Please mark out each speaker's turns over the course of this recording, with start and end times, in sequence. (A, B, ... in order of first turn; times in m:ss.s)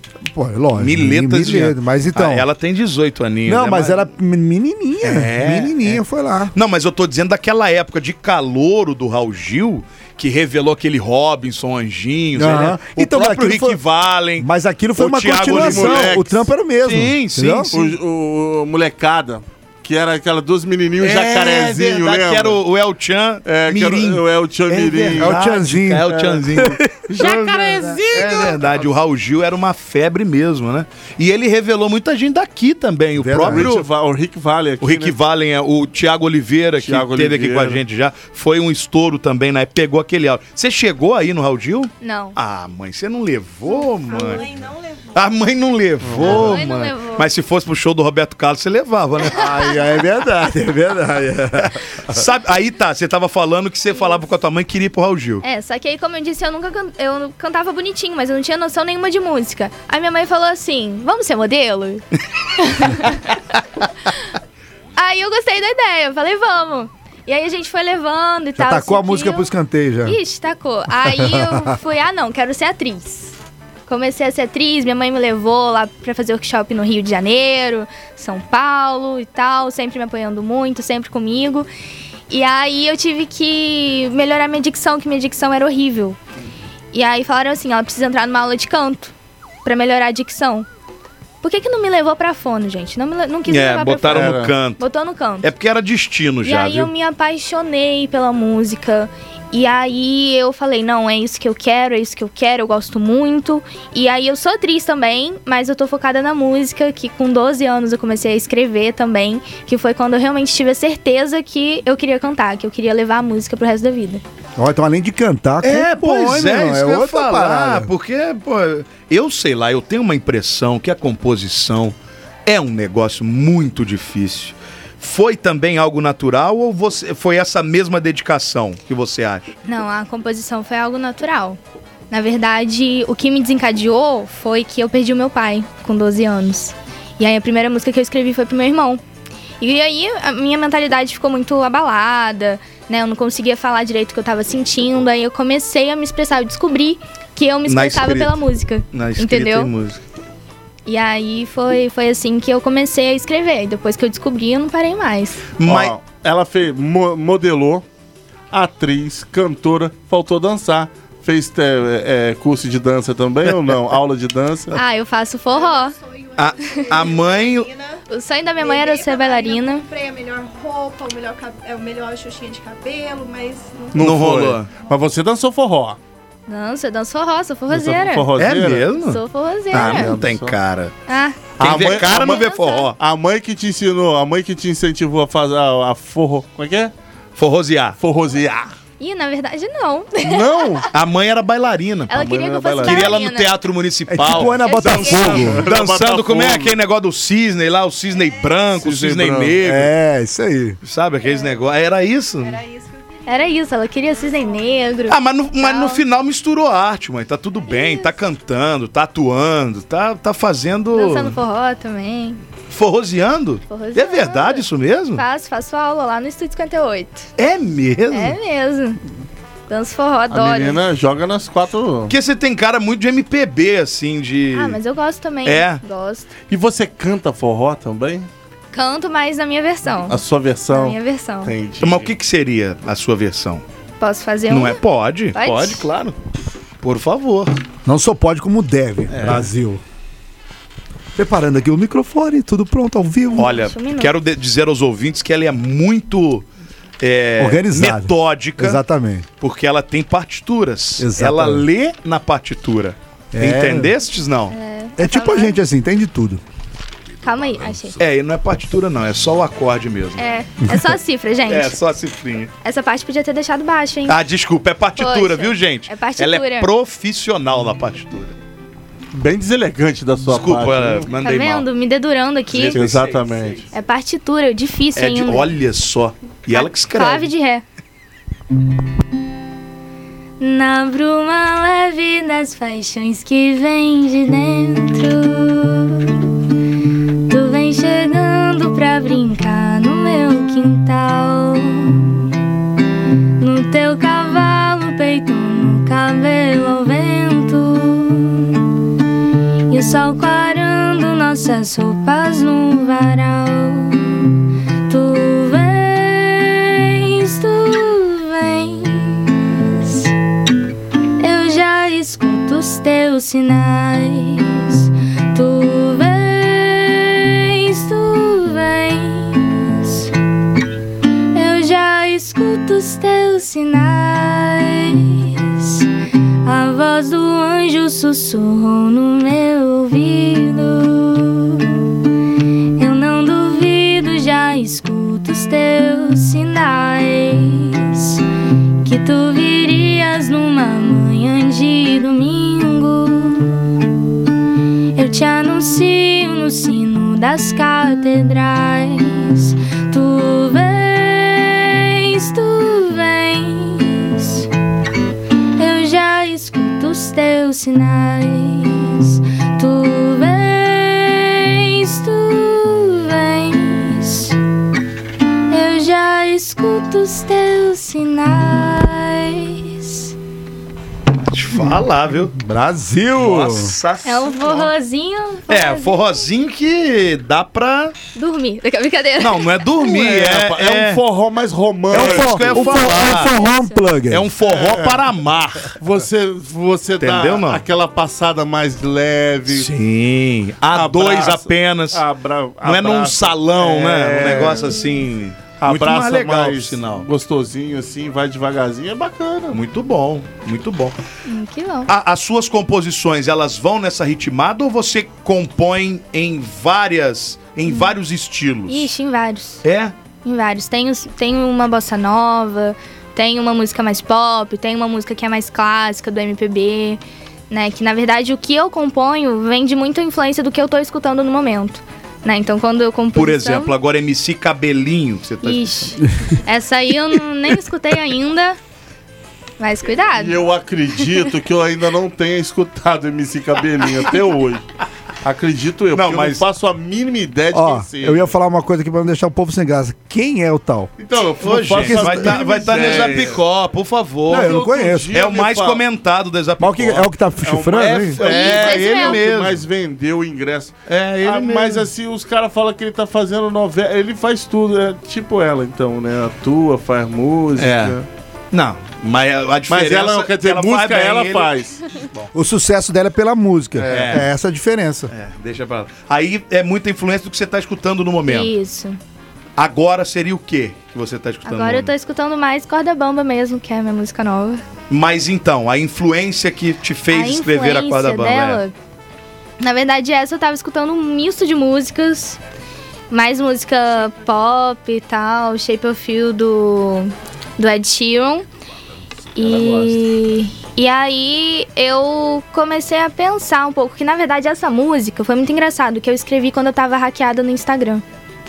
0:00.3-0:02.5 A
0:00.8-0:04.1 B
0:03.4-0:06.5 A
0:05.0-0:06.0 B
0:06.5-0:16.2 B
0:12.3-0:13.8 A
0:14.4-0:17.7 A
0:15.4-0:16.5 C
0:16.8-0:17.9 B
0:17.7-0:22.6 C
0:21.0-0:33.9 B
0:23.4-0:25.4 C
0:25.2-0:27.0 A
0:26.0-0:28.9 C
0:33.2-0:33.7 A
0:33.4-0:35.1 C
0:34.8-0:44.4 B
0:36.8-0:37.8 C
0:42.0-0:42.4 D
0:44.0-0:45.2 E
0:45.1-0:49.5 B
0:46.0-0:46.6 C
0:46.2-0:47.3 D
0:49.3-0:52.2 A
0:51.6-0:55.4 B
0:55.4-1:03.2 D
1:05.0-1:09.5 D
1:08.6-1:10.2 A
1:10.0-1:13.3 D
1:11.2-1:11.7 A
1:13.9-1:21.7 D
1:22.3-1:26.2 D
1:26.9-1:29.1 D
1:29.6-1:30.7 D
1:31.4-1:35.5 D
1:33.5-1:34.8 B
1:34.1-1:34.5 C
1:35.4-1:36.9 B
1:36.4-1:54.2 D
1:54.6-1:57.9 A
1:55.6-2:01.9 B
2:02.4-2:09.5 B
2:09.6-2:11.6 D
2:12.1-2:19.0 D
2:19.6-2:29.7 D
2:27.6-2:28.3 B
2:28.9-2:30.0 B
2:30.8-2:35.4 D
2:35.6-2:36.0 B
2:35.6-2:37.8 C
2:38.5-2:44.8 C
2:44.7-2:46.0 D
2:45.5-2:48.0 E
2:46.4-2:47.7 B
2:48.1-2:49.9 D
2:48.6-2:54.0 E
2:53.9-2:56.0 C
2:54.0-2:54.7 B
2:56.5-2:58.3 D
2:57.7-2:58.9 C
2:58.4-3:00.9 B
2:59.0-3:00.1 D
2:59.7-3:00.6 C
3:01.1-3:01.4 D
3:01.6-3:03.0 B
3:01.6-3:02.4 C
3:02.2-3:02.9 D
3:03.0-3:06.9 C
3:07.4-3:08.0 B
3:08.0-3:08.7 C
3:09.0-3:10.8 D
3:10.2-3:10.9 C
3:10.9-3:12.2 B
3:12.1-3:13.5 D
3:12.1-3:13.1 C
3:12.8-3:19.9 B
3:14.1-3:15.6 A
3:14.5-3:15.6 D
3:15.0-3:16.8 C
3:18.8-3:19.7 C
3:19.6-3:20.8 A
3:20.8-3:22.6 B
3:22.4-3:24.9 E
3:23.2-3:26.0 D
3:25.1-3:31.4 B
3:27.7-3:28.1 D
3:30.9-3:32.4 D
3:32.7-3:35.2 B
3:33.7-3:37.3 D
3:37.4-3:38.4 B
3:38.1-3:39.0 D
3:39.7-3:40.8 D
3:40.3-3:42.1 C
3:42.1-3:44.8 B
3:44.5-3:46.3 D
3:45.4-3:45.8 B
3:46.5-3:48.3 C
3:48.7-3:51.5 D
3:50.0-3:52.1 C
3:51.8-3:53.6 B
3:54.0-3:54.8 D
3:54.5-3:56.2 B
3:55.3-3:55.8 D
3:56.8-3:57.5 B
3:57.8-3:59.8 A
3:59.1-3:59.5 B
4:01.2-4:03.5 A
4:03.3-4:04.1 D
4:03.4-4:06.5 B
4:07.0-4:08.8 B
4:07.4-4:09.2 A
4:09.4-4:14.5 B
4:11.0-4:11.6 A
4:13.3-4:13.9 A
4:14.5-4:15.6 D
4:15.0-4:16.4 A
4:17.2-4:18.0 D
4:18.0-4:20.3 B
4:20.2-4:21.8 D
4:20.6-4:20.9 A
4:21.5-4:22.5 B
4:22.6-4:24.2 D
4:24.1-4:28.3 B
4:25.0-4:26.7 D
4:29.1-4:31.1 C
4:30.2-4:31.6 B
4:31.2-4:32.8 D
4:32.5-4:33.7 C
4:32.5-4:33.6 B
4:33.7-4:35.4 D
4:35.0-4:37.3 B
4:36.5-4:37.6 D
4:40.4-4:46.4 D
4:47.3-4:52.3 D
4:53.4-4:58.6 D
4:59.7-5:04.3 D
5:04.9-5:10.1 D
5:11.2-5:20.2 D
5:21.3-5:25.9 D
5:26.4-5:31.9 D
5:32.8-5:38.2 D
5:38.8-5:43.6 D
5:44.9-5:54.5 D
5:55.6-6:04.4 D
6:05.5-6:10.1 D
6:11.3-6:12.3 B
6:12.3-6:13.7 A
6:13.2-6:14.7 B
6:14.0-6:16.0 D
6:15.5-6:17.9 B
6:18.1-6:19.7 D
6:19.2-6:21.0 B
6:19.8-6:22.7 C
6:21.9-6:24.3 A
6:21.9-6:23.4 B
6:22.5-6:23.9 D
6:24.1-6:25.7 B
6:24.4-6:25.0 C
6:25.8-6:29.7 C
6:27.0-6:27.6 B
6:29.5-6:32.0 B
6:30.7-6:34.8 C
6:32.6-6:37.1 B
6:35.6-6:39.6 C
6:39.5-6:41.0 B
6:41.2-6:41.9 D
6:41.9-6:48.9 B
6:47.7-6:47.9 D
6:48.7-6:49.6 D
6:49.6-6:49.9 B
6:50.2-7:03.7 D
7:03.1-7:06.0 B
7:05.4-7:08.6 D
7:09.6-7:10.4 D
7:10.1-7:14.6 C
7:15.2-7:18.3 C
7:15.9-7:16.4 B
7:17.5-7:20.9 A
7:21.0-7:23.4 C
7:21.4-7:27.1 B
7:21.7-7:23.2 A
7:24.3-7:25.1 A
7:24.3-7:25.8 C
7:26.6-7:28.2 A
7:27.4-7:38.1 C
7:27.8-7:29.6 B
7:28.2-7:29.2 D
7:30.9-7:31.9 B
7:37.6-7:38.0 B
7:38.5-7:42.3 B
7:39.7-7:41.8 C
7:42.3-7:45.1 A
7:43.8-7:44.2 C
7:43.9-7:44.3 B
7:45.1-7:48.5 B
7:48.3-7:49.0 D
7:49.6-7:51.9 B
7:51.4-7:54.6 D
7:54.9-7:58.6 B
7:57.1-7:58.7 D
7:59.6-8:02.4 D
8:03.1-8:08.4 D
8:09.3-8:18.0 D
8:09.5-8:09.8 B